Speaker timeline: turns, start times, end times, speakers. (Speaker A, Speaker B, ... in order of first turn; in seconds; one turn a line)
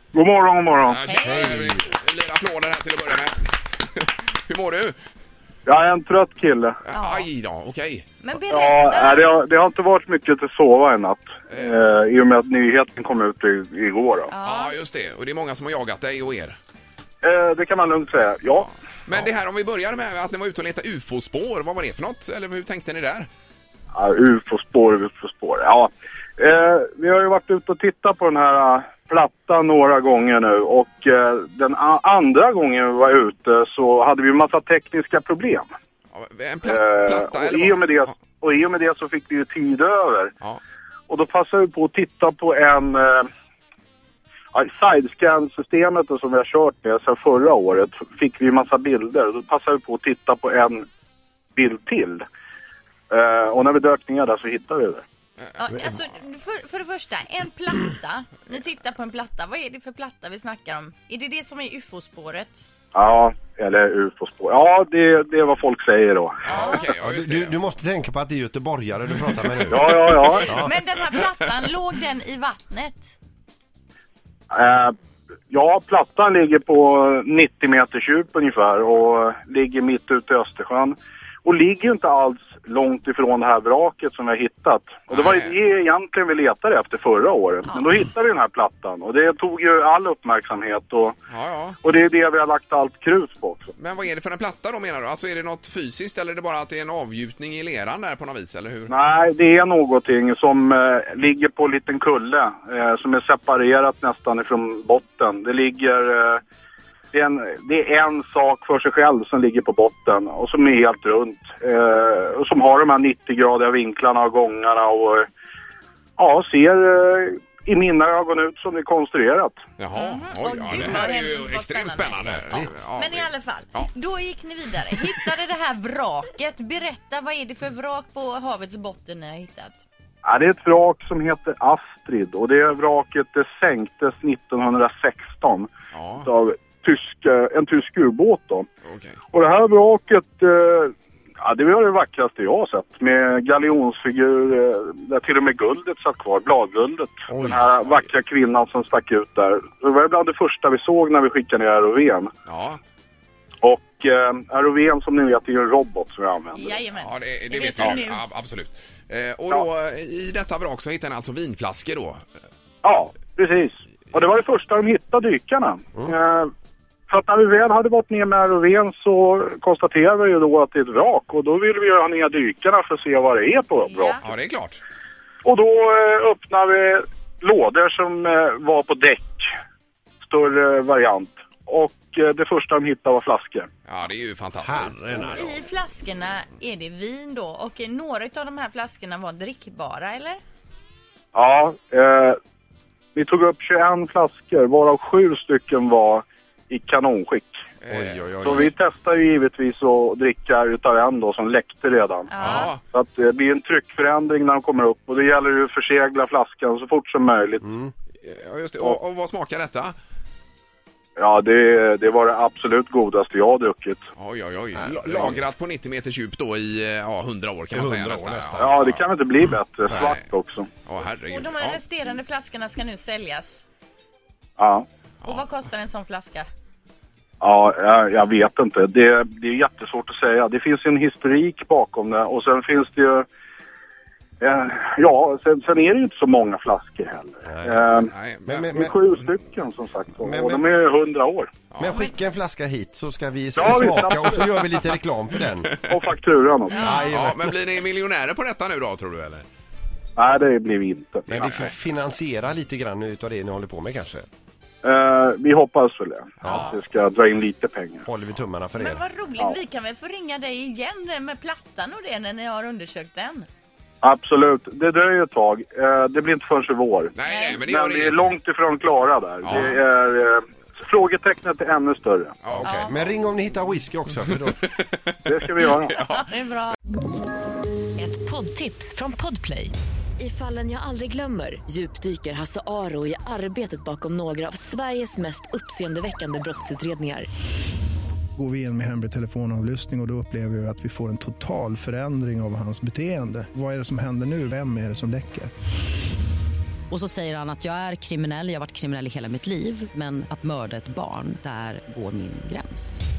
Speaker A: 0.1-1.0
Speaker B: 0.9-5.0
Speaker C: 1.1-1.5
Speaker D: 1.1-1.9
Speaker A: 5.7-6.8
Speaker B: 6.9-8.1
Speaker C: 6.9-7.3
Speaker C: 8.2-9.3
Speaker A: 8.5-14.3
Speaker C: 14.3-14.8
Speaker B: 14.4-16.6
Speaker A: 17.2-18.7
Speaker B: 19.1-23.3
Speaker A: 23.9-35.7
Speaker B: 36.1-38.1
Speaker A: 36.6-40.3
Speaker A: 41.1-43.3
Speaker A: 44.5-50.9
Speaker A: 51.5-52.2
Speaker A: 53.1-55.0
Speaker C: 55.6-62.6
Speaker A: 62.9-66.6
Speaker B: 66.4-67.6
Speaker C: 66.5-66.9
Speaker D: 66.5-70.7
Speaker A: 69.7-70.5
Speaker C: 70.3-73.1
Speaker A: 74.5-75.0
Speaker A: 75.5-91.2
Speaker B: 85.1-85.5
Speaker B: 91.3-91.8
Speaker A: 91.8-93.8
Speaker B: 93.8-98.9
Speaker A: 98.9-106.4
Speaker A: 107.1-115.3
Speaker A: 116.2-119.6
Speaker B: 119.8-123.9
Speaker C: 119.9-129.8
Speaker A: 130.2-138.7
Speaker B: 135.9-136.3
Speaker B: 138.8-139.2
Speaker A: 139.3-152.3
Speaker D: 147.3-147.7
Speaker B: 152.5-152.8
Speaker A: 153.6-156.8
Speaker C: 156.5-158.2
Speaker B: 157.0-162.2
Speaker A: 162.8-166.5
Speaker A: 167.1-174.2
Speaker C: 173.8-174.2
Speaker B: 174.2-174.8
Speaker A: 175.4-179.5
Speaker A: 180.2-183.7
Speaker B: 183.8-185.4
Speaker D: 184.6-185.6
Speaker C: 185.2-190.4
Speaker A: 191.3-192.4
Speaker A: 193.1-197.6
Speaker B: 197.8-198.6
Speaker D: 197.9-198.7
Speaker A: 198.4-207.6
Speaker C: 202.3-202.7
Speaker B: 202.4-202.8
Speaker D: 207.7-207.9
Speaker B: 208.2-209.9
Speaker A: 211.2-214.0
Speaker B: 214.2-219.0
Speaker D: 214.8-215.4
Speaker D: 217.7-218.7
Speaker A: 218.6-220.7
Speaker B: 219.9-220.2
Speaker B: 220.8-221.8
Speaker C: 221.3-223.6
Speaker A: 224.6-224.8
Speaker C: 225.2-226.5
Speaker A: 227.4-233.2
Speaker A: 234.4-238.1
Speaker D: 237.5-237.8
Speaker B: 238.0-238.7
Speaker D: 238.5-239.0
Speaker A: 238.7-241.5
Speaker D: 240.2-240.6
Speaker B: 241.7-242.0
Speaker D: 241.8-245.7
Speaker A: 243.6-244.4
Speaker A: 245.9-247.0
Speaker D: 246.7-247.5
Speaker C: 246.8-247.1
Speaker B: 247.1-249.5
Speaker A: 250.2-251.6
Speaker D: 251.3-254.3
Speaker B: 251.3-251.7
Speaker A: 254.8-258.1
Speaker D: 256.4-256.7
Speaker D: 258.1-259.0
Speaker C: 258.8-263.5
Speaker A: 264.0-272.3
Speaker B: 267.1-268.3
Speaker C: 267.3-267.6
Speaker B: 269.4-269.8
Speaker B: 272.4-273.0
Speaker D: 272.5-274.6
Speaker C: 272.6-272.9
Speaker A: 275.2-276.0
Speaker B: 275.3-276.3
Speaker C: 276.0-276.8
Speaker E: 278.0-287.3
Speaker F: 288.4-295.5
Speaker G: 296.9-303.0